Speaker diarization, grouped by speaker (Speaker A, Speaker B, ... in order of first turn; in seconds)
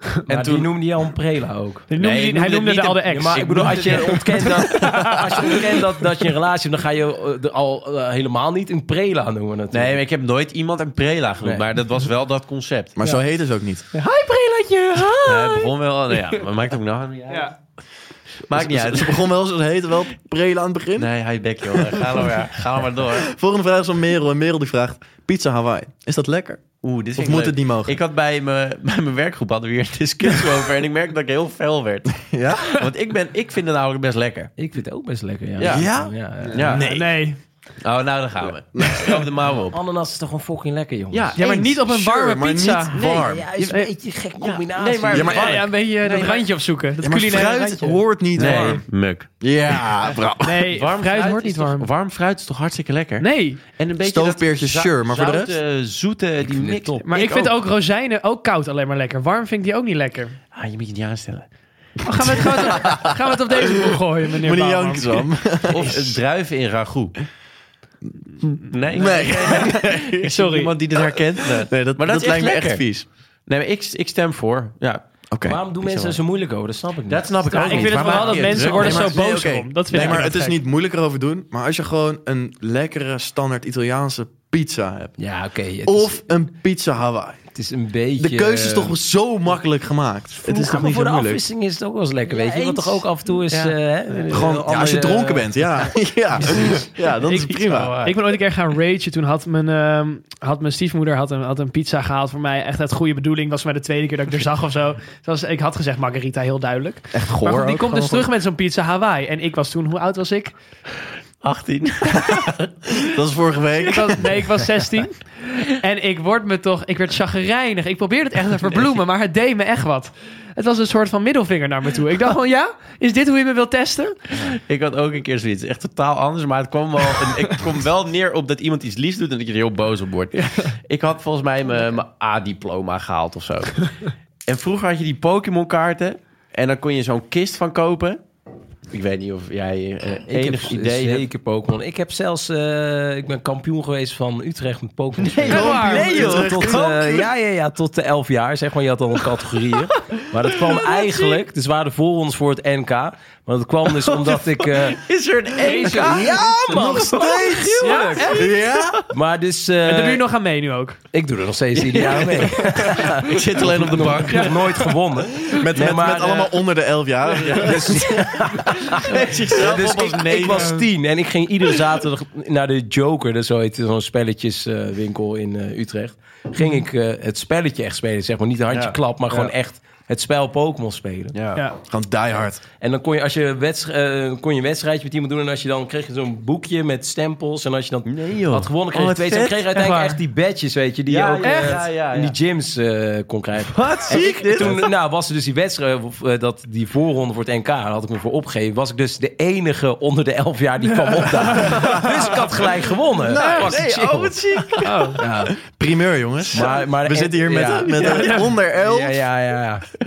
Speaker A: 0.3-0.7, 2.0-4.2, 9.7-13.0, 15.2-17.5, 18.4-19.2, 21.0-23.3, 26.8-34.5, 35.6-35.9, 36.5-36.9, 37.8-39.8, 41.1-41.4, 42.9-43.7, 44.4-46.5, 48.3-57.6, 60.5-61.5, 62.0-62.5, 65.7-67.2, 68.7-75.0, 75.8-76.2, 77.1-79.2, 79.9-80.2, 92.4-94.2, 97.5-98.4, 111.4-113.0, 118.7-119.0, 124.3-134.0, 134.5-138.2, 138.9-141.3, 145.6-146.8, 153.9-157.5, 158.2-159.0, 163.2-164.6, 167.4-167.7, 168.9-170.8, 178.7-179.5, 181.3-181.6, 188.1-189.7, 191.1-192.3, 193.7-194.9, 203.3-205.2
Speaker B: 0.3-1.9, 3.1-10.0, 34.6-36.7, 39.7-41.4, 43.2-45.6, 48.4-48.7, 56.5-57.0, 75.5-79.0, 85.2-86.2, 87.5-89.0, 90.4-96.9, 140.3-155.0, 155.6-158.3, 159.1-160.2, 161.1-166.6, 167.6-169.0, 169.6-181.3, 182.8-204.3, 205.2-205.6, 206.5-209.9
Speaker C: 1.9-5.6, 13.9-15.7, 17.3-17.6, 36.8-37.4, 41.4-43.0, 45.3-48.0, 50.4-51.9, 53.2-53.6, 57.0-60.4, 62.0-65.3, 70.3-70.7, 77.6-80.6, 97.2-110.5, 113.9-124.3, 130.4-130.7, 145.5-146.5, 157.8-158.6, 159.8-161.0, 162.1-163.2, 164.3-164.9, 170.5-170.9, 189.7-190.2, 191.4-191.8, 201.6-202.0, 203.3-203.7, 204.8-205.2, 207.9-208.5
Speaker D: 13.0-13.9, 18.5-21.1, 21.7-22.1, 23.0-28.0, 32.2-32.9, 35.6-37.2, 38.5-39.3, 41.4-43.5, 45.1-45.5, 47.0-48.9, 49.4-50.7, 54.0-55.6, 64.3-66.2, 68.9-70.3, 71.6-73.1, 75.3-75.6, 78.6-85.3, 85.8-87.5, 88.2-91.4, 94.3-98.0, 107.1-108.3, 113.0-114.3, 145.4-147.3, 156.4-159.0, 165.5-170.5, 181.9-182.6, 205.6-209.2